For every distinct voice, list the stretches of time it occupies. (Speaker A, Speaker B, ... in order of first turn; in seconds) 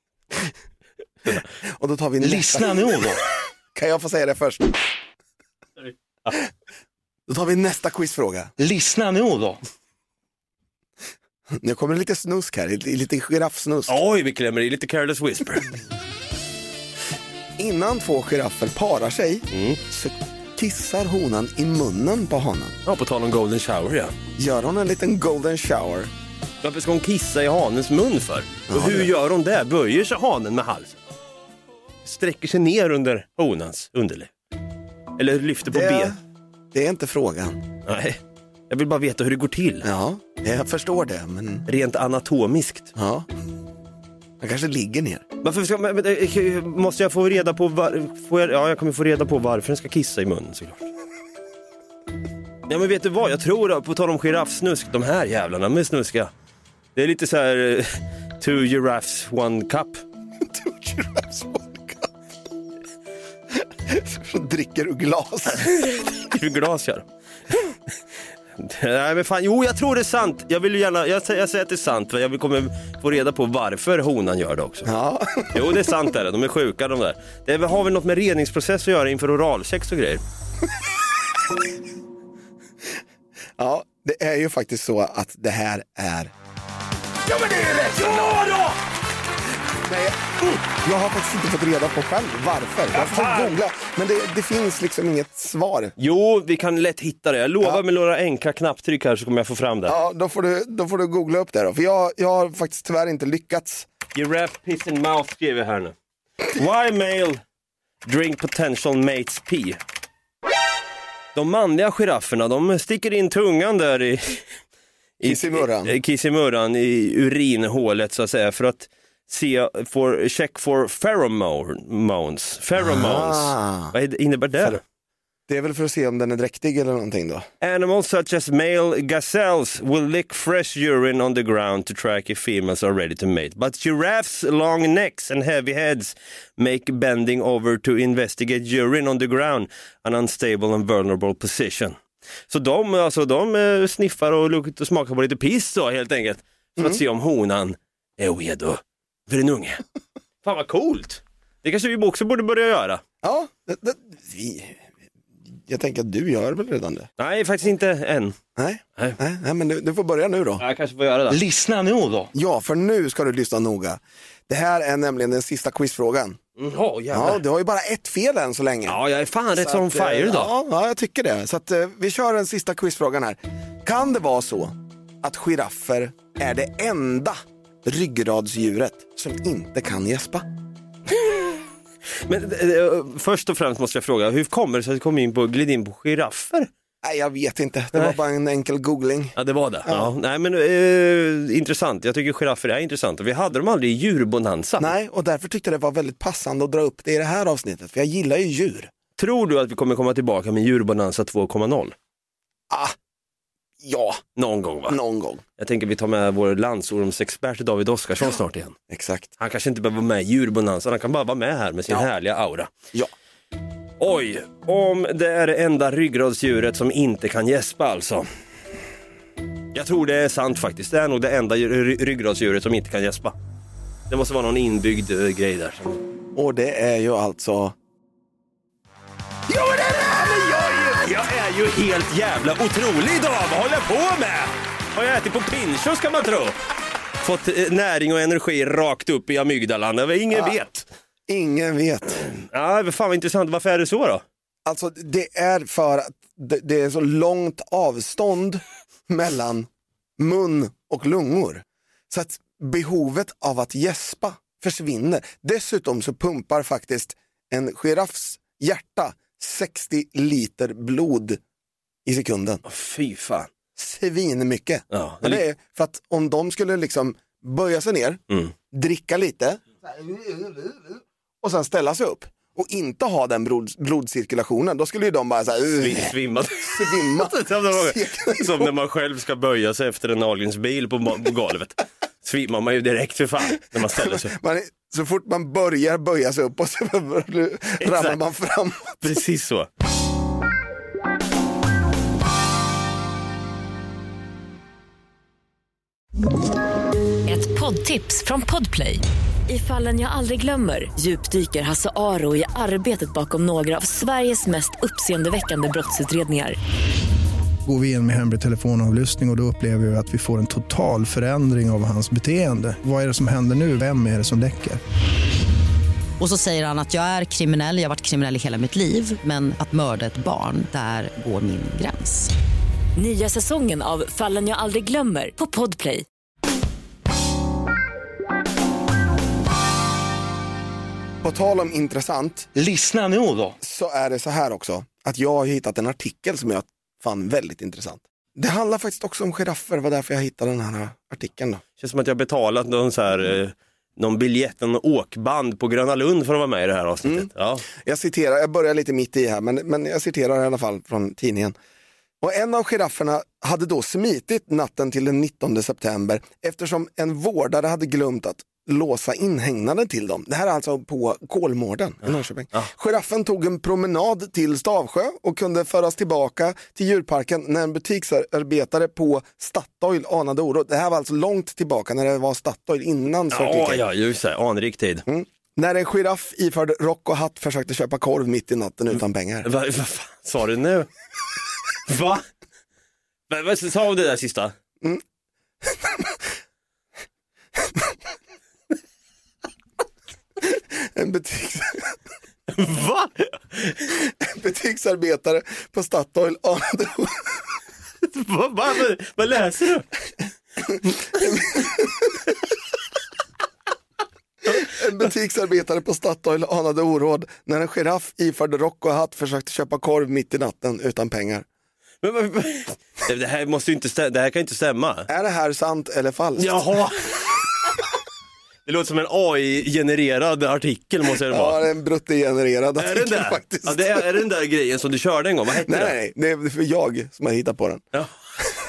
Speaker A: 1.6-3.0, 3.7-4.8, 7.3-8.5, 11.5-14.0, 17.6-22.8, 24.4-26.1, 28.7-29.1, 35.7-36.2, 36.7-37.6, 39.8-41.7, 43.0-43.3, 44.4-45.2, 60.4-62.1, 63.6-65.7, 74.8-75.9, 83.6-86.3, 87.9-88.4, 89.8-95.9, 99.9-103.9, 115.2-115.9, 122.8-123.9, 125.5-127.5, 153.2-154.9, 155.7-157.1, 158.6-160.6, 162.3-166.4, 167.1-169.0, 169.6-180.5, 187.0-190.1, 194.8-198.9, 202.7-203.0, 203.8-204.2, 204.9-205.4, 208.9-209.3, 226.3-227.8, 240.3-240.6, 241.3-242.2, 244.7-261.4, 262.1-262.6, 263.8-278.7, 283.8-289.1, 331.2-332.5, 333.6-341.6, 347.0-351.6, 352.2-373.9, 375.1-379.5, 385.6-386.2, 387.6-387.9, 390.4-392.0, 394.0-397.5, 400.6-402.2, 404.4-411.5, 415.1-416.8, 421.3-424.1, 425.6-427.9
Speaker B: 2.2-3.2, 8.6-9.6, 161.3-162.3, 332.6-333.6
Speaker C: 5.8-6.4, 13.9-15.7, 19.5-19.8, 22.9-24.2, 26.6-31.0, 32.0-34.3, 35.2-36.2, 37.9-38.2, 38.7-39.9, 41.7-42.9, 45.4-50.9, 52.7-56.3, 57.0-60.0, 65.5-67.7, 68.6-74.9, 75.5-80.2, 87.3-88.8, 92.9-93.6, 96.0-100.0, 104.1-105.9, 106.5-107.4, 108.0-109.8, 111.3-114.4, 115.2-124.8, 127.6-142.0, 142.5-149.8, 150.4-153.0, 157.2-158.4, 160.6-161.4, 166.6-167.4, 168.9-170.5, 181.1-181.6, 182.2-186.7, 189.4-194.9, 199.2-201.9, 204.4-205.0, 205.6-208.8, 209.4-212.7, 214.0-218.3, 219.7-223.3, 224.1-226.0, 229.5-236.6, 237.2-240.9, 242.2-244.2, 262.6-263.5, 264.9-265.4, 275.8-284.3, 287.8-288.2, 289.0-289.7, 341.8-347.7, 373.3-375.1, 379.4-380.9, 381.9-382.2, 383.3-384.5, 392.5-394.0, 398.0-399.9, 412.0-415.1, 416.4-417.4, 418.7-421.6, 422.8-425.9
Speaker D: 297.3-306.6, 323.0-326.1
Speaker E: 307.7-314.8
Speaker F: 316.2-322.3